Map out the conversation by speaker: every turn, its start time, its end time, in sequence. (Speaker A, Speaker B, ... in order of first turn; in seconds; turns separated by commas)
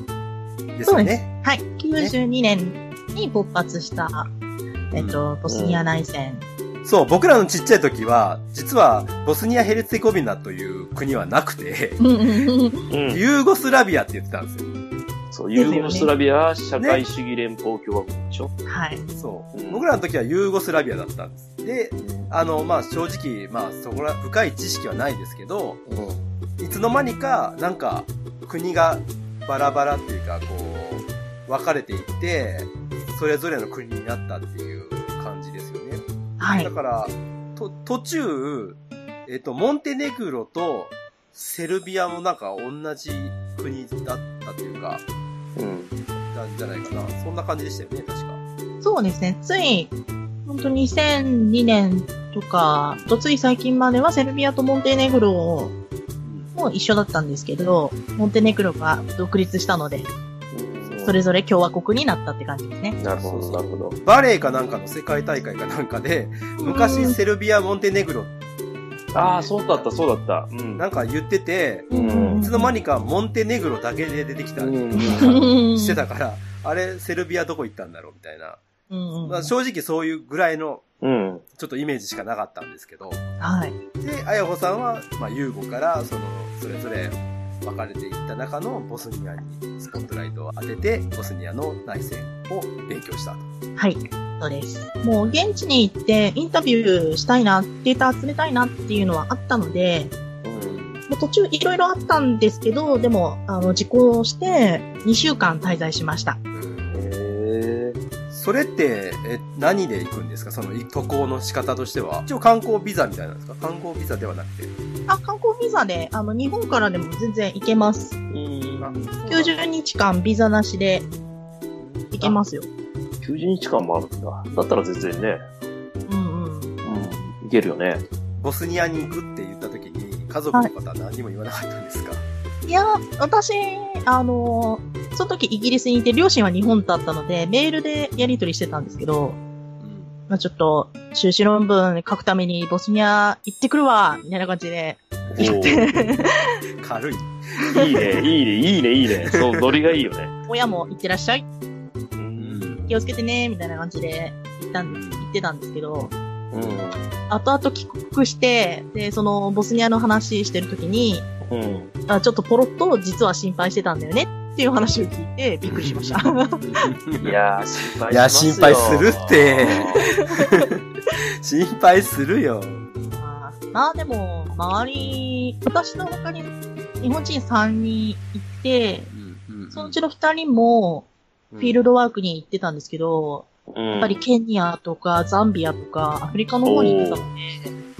Speaker A: 0.8-1.3, Speaker B: 0.9-4.3, Speaker B: 4.9-6.5, Speaker A: 4.9-5.3, Speaker C: 5.5-5.9, Speaker A: 6.8-12.0, Speaker B: 12.0-12.9, Speaker C: 12.9-13.2, Speaker A: 13.1-14.7, Speaker C: 15.3-18.5, Speaker B: 15.5-16.1, Speaker A: 16.8-17.0, Speaker B: 18.7-19.1, Speaker A: 19.1-25.8, Speaker C: 19.5-19.9, Speaker C: 22.0-22.3, Speaker C: 25.9-26.2, Speaker A: 26.6-45.0, Speaker B: 36.4-36.7, Speaker C: 45.6-46.0, Speaker A: 46.3-48.4, Speaker B: 48.8-50.0, Speaker B: 50.5-55.8, Speaker A: 56.2-56.5, Speaker B: 56.5-60.1, Speaker C: 60.5-61.2, Speaker B: 61.0-63.0, Speaker C: 63.0-64.0, Speaker A: 63.2-68.3, Speaker B: 66.6-67.2, Speaker A: 69.1-69.9, Speaker C: 69.1-70.9, Speaker A: 70.8-78.6, Speaker B: 71.9-72.7, Speaker C: 71.9-72.5, Speaker C: 74.6-75.5, Speaker B: 75.0-76.0, Speaker B: 78.9-79.5, Speaker A: 79.2-80.8, Speaker C: 81.0-81.4, Speaker A: 81.5-83.2, Speaker B: 83.4-83.8, Speaker A: 84.0-93.5, Speaker B: 93.8-100.1, Speaker A: 95.2-95.7, Speaker C: 100.4-100.8, Speaker A: 100.5-101.0, Speaker B: 101.1-106.4, Speaker A: 106.5-107.1, Speaker C: 106.9-108.0, Speaker A: 108.3-114.7, Speaker B: 115.1-118.2, Speaker C: 118.3-119.2, Speaker A: 118.8-119.6, Speaker B: 119.3-121.1, Speaker A: 121.8-122.2, Speaker C: 122.1-122.3, Speaker B: 122.1-122.7, Speaker C: 123.2-125.4, Speaker B: 126.1-126.7, Speaker C: 126.8-128.0, Speaker A: 128.4-132.2, Speaker B: 132.7-139.4, Speaker A: 139.8-140.1, Speaker B: 140.3-146.4, Speaker C: 145.3-145.9, Speaker A: 146.8-148.3, Speaker C: 147.7-150.3, Speaker A: 149.3-150.0, Speaker B: 150.5-151.5, Speaker C: 152.2-152.8, Speaker A: 152.4-152.9, Speaker B: 152.9-156.1, Speaker A: 154.9-155.3, Speaker C: 156.5-157.0, Speaker A: 156.5-156.8, Speaker B: 157.3-161.3, Speaker C: 161.5-161.9, Speaker B: 162.1-166.6, Speaker A: 165.7-167.4, Speaker C: 167.2-170.1, Speaker A: 168.1-170.7, Speaker B: 169.7-170.5, Speaker A: 171.4-172.9, Speaker B: 173.0-179.1, Speaker A: 179.1-180.0, Speaker B: 179.7-181.1, Speaker A: 181.5-181.8, Speaker B: 181.6-187.7, Speaker C: 183.7-184.2, Speaker C: 186.7-187.2